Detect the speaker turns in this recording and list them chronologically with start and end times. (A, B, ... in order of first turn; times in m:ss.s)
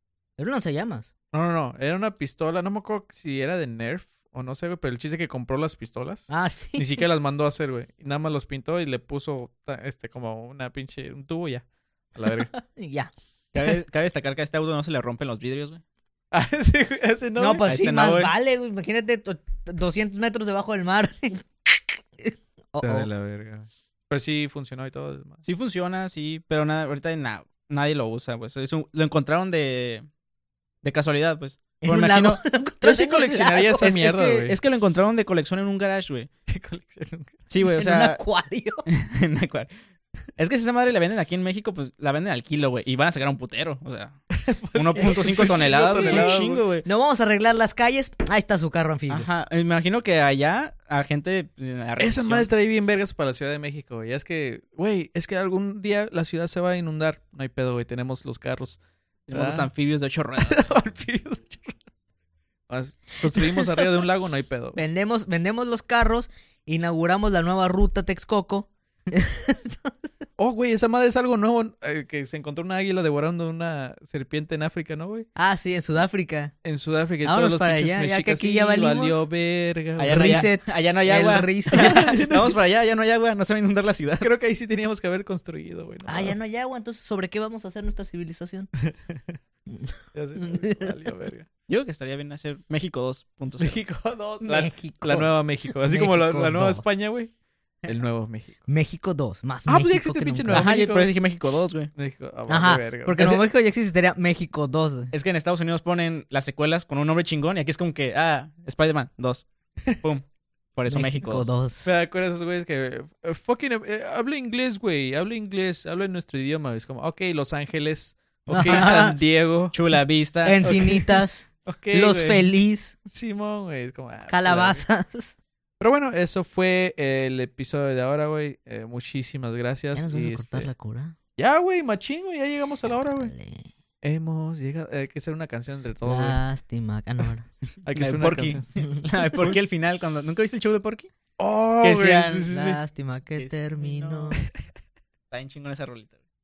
0:00.4-0:01.1 A
0:01.3-0:12.5 B
0:06.3-0:07.0 A
0:12.5-0:13.1 A
0:13.5-0:15.8 C
0:16.3-0:17.6 B
0:17.4-0:23.1 A
0:17.6-0:18.3 C
0:22.8-0:25.4 B
0:25.4-0:30.0 C
0:30.8-0:32.4 C
0:31.8-0:33.9 A
0:32.8-0:34.6 B
0:33.8-0:36.3 C
0:36.5-0:37.3 B
0:37.5-0:38.2 C
0:37.6-0:38.8 A
0:38.9-0:39.7 C
0:40.4-0:44.2 C
0:44.3-0:46.6 B
0:44.7-0:46.8 C
0:45.0-0:49.3 A
0:49.1-0:52.5 C
0:52.0-0:58.8 B
0:59.3-1:00.7 C
0:59.3-0:59.7 B
1:00.4-1:01.8 B
1:02.7-1:04.8 B
1:04.8-1:09.9 A
1:10.4-1:15.3 B
1:15.4-1:16.5 A
1:16.6-1:20.5 B
1:17.2-1:19.2 A
1:20.0-1:24.3 C
1:20.1-1:22.2 A
1:21.7-1:22.6 B
1:24.2-1:26.4 B
1:26.1-1:28.7 A
1:29.7-1:30.9 A
1:30.1-1:31.5 B
1:31.7-1:33.8 C
1:33.6-1:37.3 B
1:34.4-1:36.9 A
1:37.8-1:38.6 B
1:38.7-1:40.7 A
1:39.7-1:41.1 B
1:40.5-1:41.9 C
1:41.9-1:43.4 B
1:42.5-1:45.1 A
1:45.1-1:51.5 C
1:50.9-1:51.9 A
1:51.8-1:59.7 B
1:58.5-1:59.2 A
1:59.7-2:00.8 C
2:00.4-2:02.9 A
2:00.6-2:01.1 B
2:01.6-2:02.4 B
2:03.0-2:04.8 B
2:04.3-2:05.3 A
2:05.8-2:10.7 B
2:09.9-2:11.2 A
2:11.4-2:13.3 B
2:13.2-2:13.7 A
2:14.0-2:16.4 B
2:16.0-2:17.5 A
2:17.8-2:18.6 B
2:18.0-2:21.1 C
2:21.4-2:22.8 B
2:21.8-2:22.5 C
2:21.8-2:24.4 A
2:23.4-2:24.4 C
2:25.3-2:26.1 C